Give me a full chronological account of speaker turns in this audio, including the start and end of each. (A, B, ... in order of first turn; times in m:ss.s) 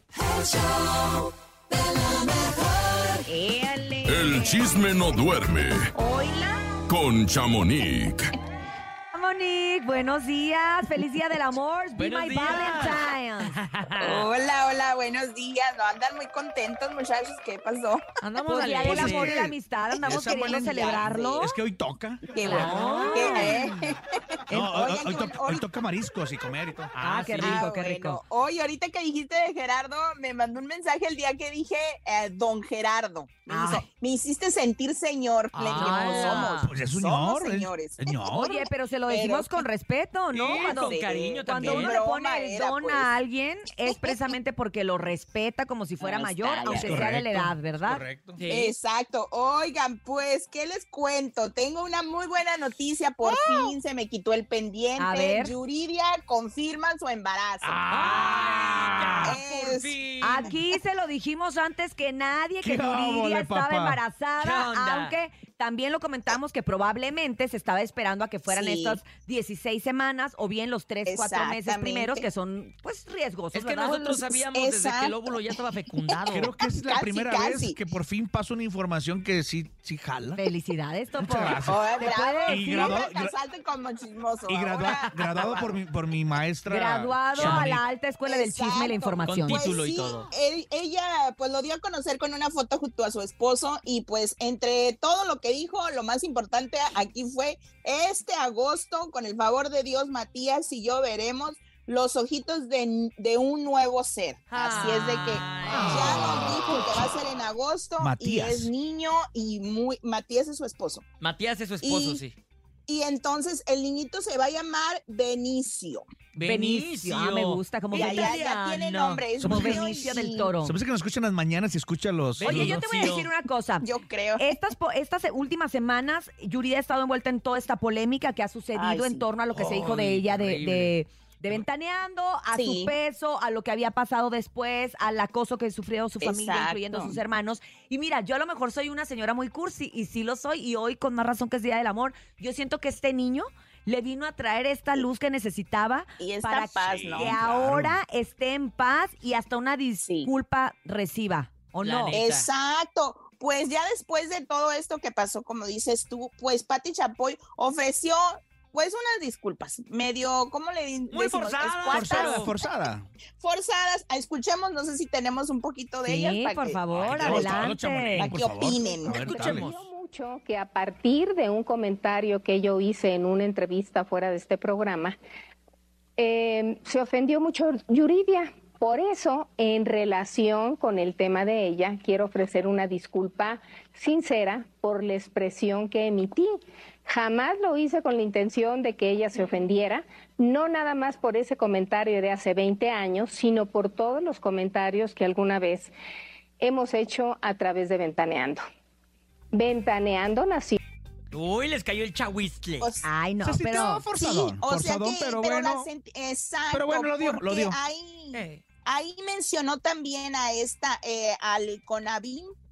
0:00.3-0:00.8 A
0:02.4-0:02.8 A
0:03.3-0:04.7 B
0:04.0-0:05.8 C
0:06.0-0:06.5 D
0:06.9-0:08.2 C
0:09.1-0:13.5 B
0:12.0-0:14.2 A
0:14.0-0:18.0 D
0:18.2-0:19.3 A
0:18.4-0:21.5 B
0:18.8-0:22.2 E
0:19.9-0:21.5 D
0:22.2-0:25.7 D
0:22.4-0:23.6 B
0:22.4-0:23.6 A
0:24.5-0:27.0 E
0:26.9-0:27.7 A
0:27.0-0:28.2 B
0:27.3-0:39.6 D
0:33.5-0:33.8 B
0:35.5-0:36.7 A
0:35.7-0:36.5 B
0:36.6-0:38.5 E
0:38.3-0:48.0 B
0:40.3-0:42.0 A
0:40.5-0:43.1 D
0:43.8-0:44.3 D
0:46.3-0:47.0 D
0:46.6-0:48.4 E
0:48.4-0:48.7 A
0:48.5-0:57.8 D
0:55.0-0:55.5 B
0:57.6-0:59.4 E
0:57.9-1:00.5 A
0:59.2-1:00.0 D
1:00.2-1:14.2 B
1:02.6-1:04.0 E
1:04.4-1:05.2 A
1:08.5-1:09.0 D
1:11.0-1:12.3 D
1:13.5-1:16.5 A
1:14.1-1:15.5 D
1:16.1-1:17.8 D
1:16.3-1:20.4 E
1:20.4-1:23.0 B
1:21.2-1:21.8 E
1:21.6-1:25.8 D
1:22.4-1:23.3 E
1:24.5-1:27.6 E
1:26.7-1:29.6 B
1:27.3-1:27.8 A
1:28.2-1:51.0 D
1:29.2-1:30.3 A
1:44.5-1:46.9 A
1:45.7-1:46.0 B
1:48.0-1:48.7 E
1:51.2-1:52.3 A
1:51.8-1:52.2 D
1:52.9-1:56.0 D
1:56.3-1:59.3 A
1:56.4-1:58.4 B
1:57.9-2:00.5 D
1:59.4-2:02.8 E
1:59.4-2:00.8 B
2:02.4-2:03.3 A
2:02.4-2:03.9 B
2:03.8-2:04.6 D
2:04.4-2:32.2 B
2:08.7-2:09.3 D
2:09.5-2:10.9 A
2:12.5-2:13.0 D
2:16.2-2:17.2 D
2:26.2-2:27.4 D
2:26.8-2:28.0 E
2:30.0-2:30.3 D
2:31.8-2:32.5 A
2:32.1-2:42.6 D
2:41.1-2:42.5 A
2:41.9-2:43.0 E
2:43.4-2:49.3 D
2:46.0-2:48.3 B
2:46.9-2:49.7 E
2:48.9-2:55.2 F
2:49.0-2:49.9 A
2:56.2-3:15.9 F
3:16.6-3:18.6 F
3:19.5-3:20.8 F
3:21.3-3:22.9 A
3:22.8-3:23.1 D
3:23.0-3:24.0 B
3:23.4-3:25.9 E
3:24.1-3:32.5 D
3:26.7-3:27.8 E
3:28.3-3:28.6 A